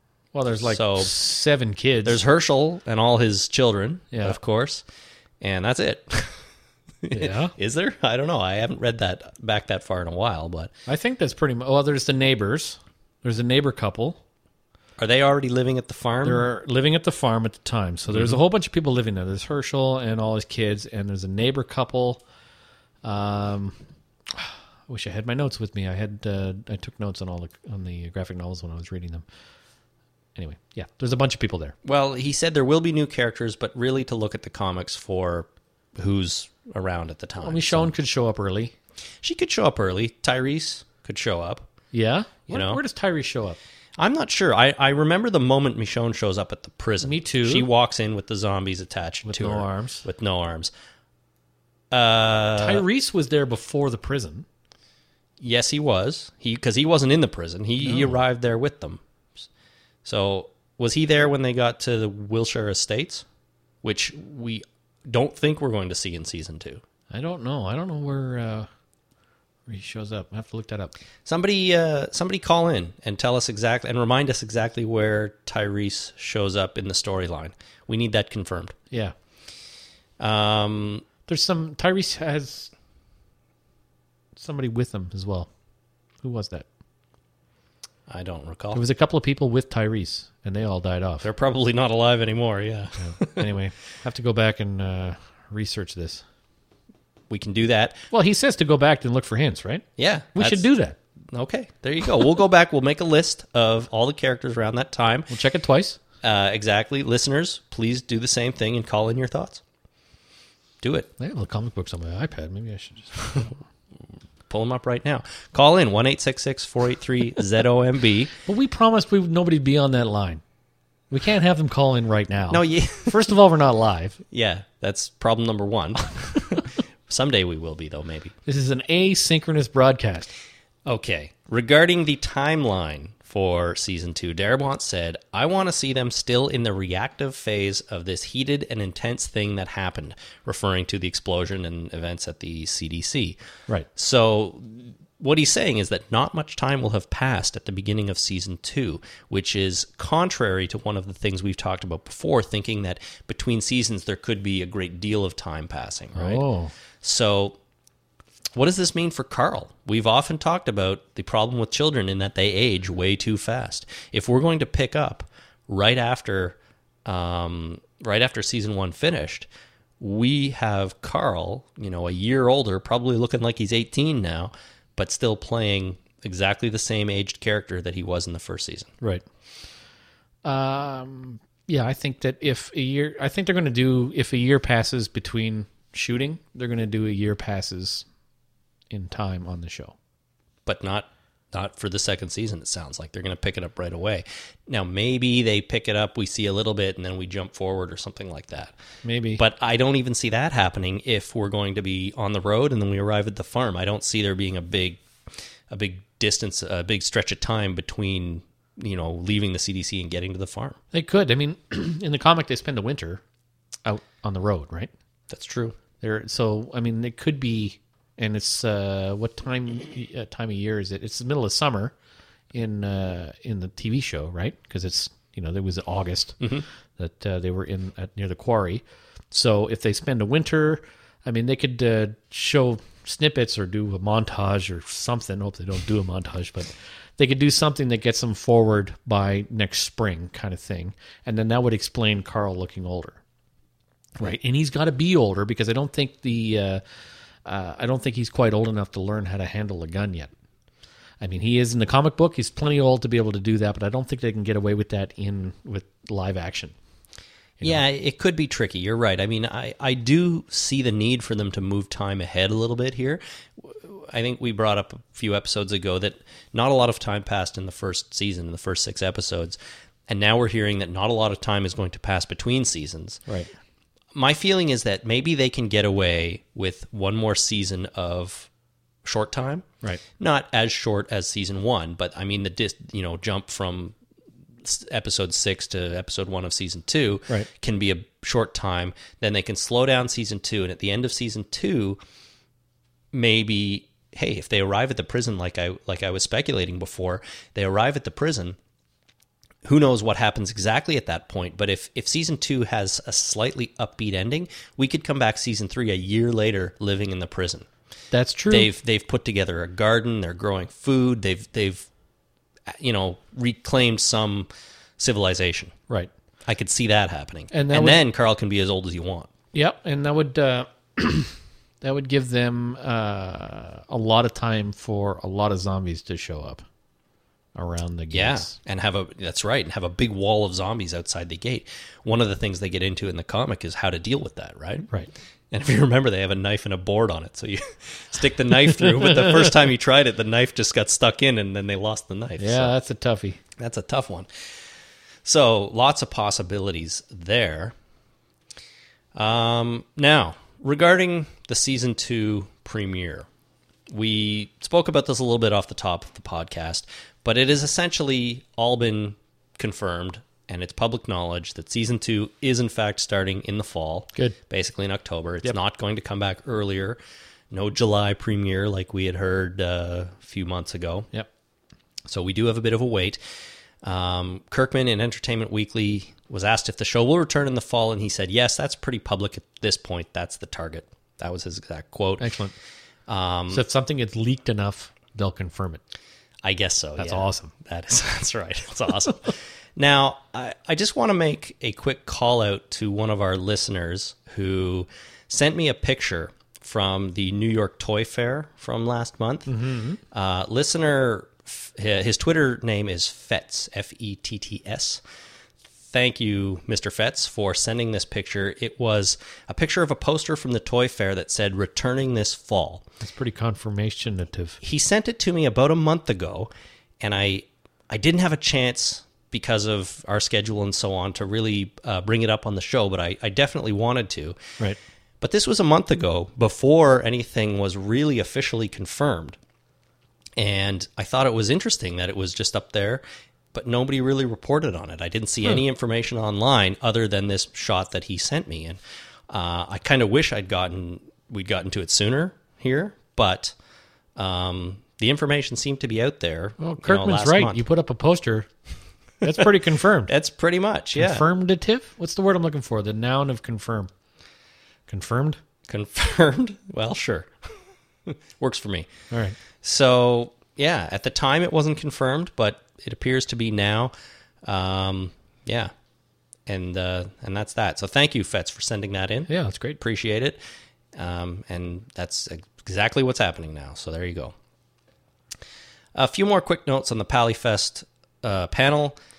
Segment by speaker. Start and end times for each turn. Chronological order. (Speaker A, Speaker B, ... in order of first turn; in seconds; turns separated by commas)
Speaker A: 0.3-2.2, Speaker B: 0.6-1.1, Speaker B: 2.0-4.8, Speaker A: 4.1-4.4, Speaker B: 5.4-6.4, Speaker B: 7.0-10.7, Speaker A: 7.1-7.5, Speaker A: 10.8-14.2, Speaker B: 15.0-16.4, Speaker A: 16.2-22.2, Speaker B: 18.1-18.4, Speaker A: 23.0-23.8, Speaker A: 24.3-29.2, Speaker A: 30.3-31.8, Speaker B: 31.8-37.9, Speaker A: 37.4-38.7, Speaker B: 39.2-41.7, Speaker A: 41.9-43.6, Speaker B: 42.5-42.8, Speaker B: 44.0-50.7, Speaker A: 47.0-47.7, Speaker A: 49.2-50.0, Speaker B: 51.9-52.8, Speaker A: 52.6-54.5, Speaker B: 55.4-59.4, Speaker A: 57.8-58.2, Speaker B: 60.0-63.2, Speaker B: 63.8-66.8, Speaker A: 67.1-68.7, Speaker A: 69.7-70.9, Speaker B: 71.2-78.8, Speaker B: 80.2-81.0, Speaker A: 81.3-82.7, Speaker A: 84.3-85.5, Speaker A: 86.2-86.7, Speaker B: 88.1-88.8, Speaker A: 88.7-91.3, Speaker B: 91.2-93.5, Speaker A: 93.0-96.2, Speaker B: 97.3-98.0, Speaker A: 98.1-101.0, Speaker B: 100.0-100.7, Speaker B: 101.3-105.3, Speaker A: 105.3-106.0, Speaker B: 106.2-109.6, Speaker B: 110.8-111.1, Speaker A: 111.2-113.5, Speaker B: 114.5-118.3, Speaker A: 118.5-120.4, Speaker A: 121.1-124.2, Speaker B: 122.5-123.2, Speaker B: 124.3-128.3, Speaker A: 128.4-130.3, Speaker B: 130.8-143.4, Speaker B: 143.9-156.4, Speaker A: 156.1-156.7, Speaker B: 157.0-157.6, Speaker B: 158.6-169.5, Speaker B: 170.0-178.9, Speaker A: 180.4-188.1, Speaker A: 188.9-189.9, Speaker B: 190.7-198.7, Speaker A: 199.0-199.4, Speaker B: 199.4-205.0, Speaker B: 205.7-210.8, Speaker A: 210.9-213.2, Speaker A: 213.8-214.9, Speaker B: 215.3-215.8, Speaker A: 216.0-221.9, Speaker A: 222.5-226.4, Speaker B: 226.4-226.7, Speaker A: 227.0-243.2, Speaker A: 244.2-246.8, Speaker A: 247.4-250.3, Speaker A: 251.2-256.7, Speaker B: 257.6-273.2, Speaker B: 274.1-278.5, Speaker B: 279.0-279.7, Speaker B: 280.2-283.9, Speaker B: 284.6-292.0, Speaker B: 293.1-298.6, Speaker B: 299.6-307.7, Speaker A: 308.1-308.7, Speaker B: 308.5-311.9, Speaker B: 312.7-314.5, Speaker B: 315.0-315.7, Speaker B: 316.5-319.3, Speaker A: 317.5-318.0, Speaker A: 319.5-326.6, Speaker A: 327.5-328.5, Speaker B: 328.1-334.9, Speaker B: 335.5-342.7, Speaker A: 342.4-343.4, Speaker B: 343.6-344.3, Speaker B: 345.2-347.7, Speaker B: 349.1-353.3, Speaker B: 353.9-367.0, Speaker B: 367.5-371.1, Speaker B: 372.1-373.2, Speaker B: 373.8-382.3, Speaker A: 382.2-382.5, Speaker B: 383.1-383.6, Speaker A: 383.5-385.8, Speaker B: 386.4-405.0, Speaker A: 387.0-387.5, Speaker A: 399.5-400.0, Speaker B: 405.9-412.8, Speaker A: 413.0-414.6, Speaker B: 414.6-416.5, Speaker B: 417.0-424.4, Speaker B: 425.2-429.4, Speaker B: 430.4-433.0, Speaker B: 433.5-438.8, Speaker B: 439.3-443.5, Speaker B: 444.1-447.6, Speaker A: 446.6-448.5, Speaker A: 449.2-450.1, Speaker B: 450.1-451.2, Speaker A: 450.9-453.9, Speaker A: 454.9-455.4, Speaker B: 455.7-457.3, Speaker B: 458.1-458.9, Speaker A: 459.1-459.4, Speaker B: 459.6-463.9, Speaker B: 464.4-465.7, Speaker B: 466.5-470.4, Speaker A: 469.3-469.8, Speaker B: 470.9-474.3, Speaker B: 475.9-479.0